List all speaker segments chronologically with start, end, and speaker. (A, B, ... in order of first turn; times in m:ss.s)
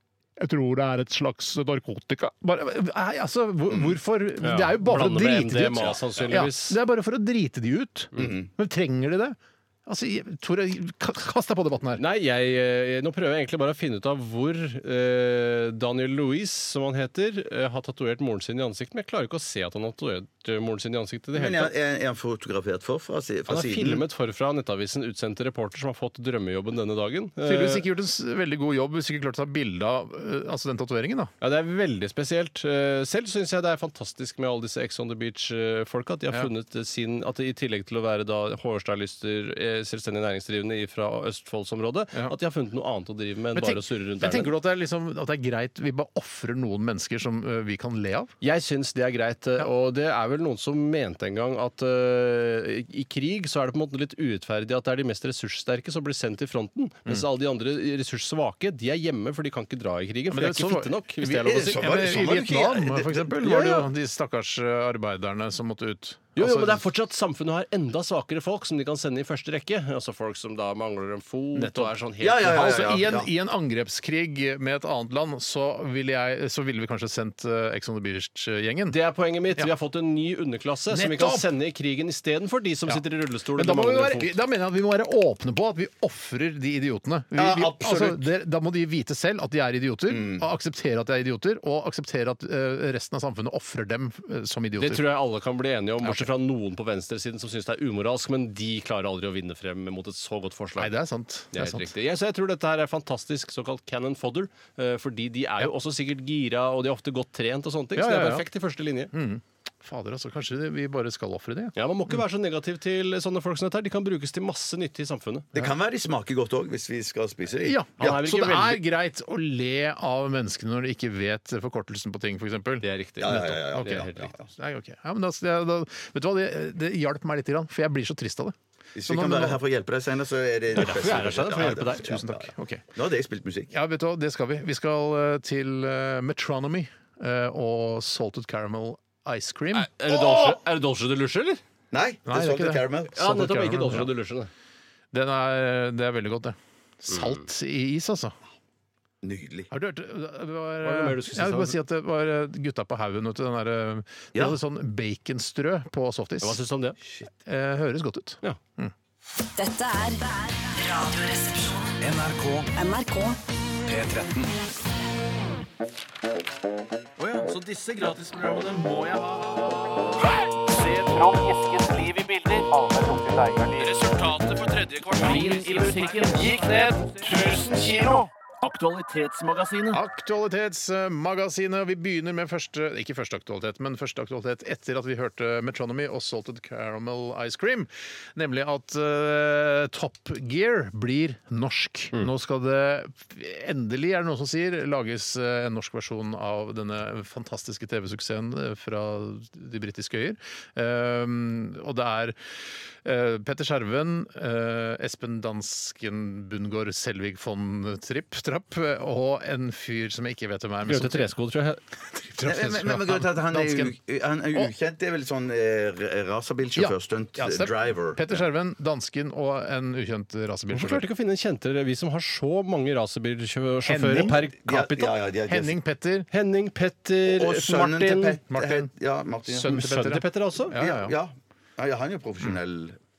0:00.4-0:12.0 A
0:03.7-0:04.0 B
0:04.4-0:06.8 C
0:05.9-0:06.3 B
0:08.2-0:08.5 B
0:12.0-0:21.7 C
0:21.3-0:24.0 B
0:23.5-0:27.8 C
0:27.4-0:31.3 A
0:31.4-0:44.5 C
0:43.5-0:48.3 A
0:48.4-1:01.8 C
1:00.3-1:06.8 A
1:01.4-1:03.7 B
1:06.4-1:12.7 C
1:11.5-1:19.0 A
1:12.2-1:13.3 B
1:18.9-1:24.3 C
1:20.9-1:21.4 A
1:22.9-1:35.0 A
1:27.3-1:28.2 B
1:30.1-1:30.4 B
1:34.8-1:40.9 C
1:36.0-1:36.3 A
1:40.8-1:41.9 A
1:41.5-1:49.1 C
1:48.0-1:48.4 A
1:49.1-1:52.2 A
1:51.8-1:55.5 C
1:55.5-1:57.8 B
1:57.6-2:08.6 A
1:58.0-1:58.8 C
2:02.8-2:04.3 C
2:03.2-2:04.4 B
2:09.0-2:13.7 B
2:09.1-2:09.6 A
2:10.7-2:12.8 A
2:10.8-2:12.1 C
2:13.7-2:19.9 A
2:19.7-2:21.6 C
2:20.1-2:20.6 B
2:21.9-2:23.3 B
2:22.3-2:24.1 A
2:23.1-2:24.5 C
2:25.1-2:28.3 A
2:29.2-2:29.7 B
2:29.7-2:36.6 A
2:30.8-2:31.8 C
2:36.4-2:37.0 C
2:37.4-2:38.9 A
2:39.6-2:42.0 D
2:42.0-2:42.6 B
2:42.7-2:43.4 D
2:44.0-2:44.4 B
2:47.2-2:49.5 C
2:50.7-3:00.0 E
2:53.8-2:58.2 C
2:59.9-3:22.5 A
3:23.0-3:31.3 A
3:30.8-3:31.8 C
3:32.0-3:33.9 A
3:32.4-3:38.4 B
3:36.7-3:41.0 A
3:40.7-3:45.1 C
3:43.8-3:44.4 A
3:44.3-3:45.8 B
3:45.5-3:46.3 A
3:46.3-3:48.4 C
3:47.3-3:50.0 B
3:48.5-3:48.9 A
3:49.4-3:51.1 A
3:49.7-3:50.8 C
3:50.7-3:53.0 B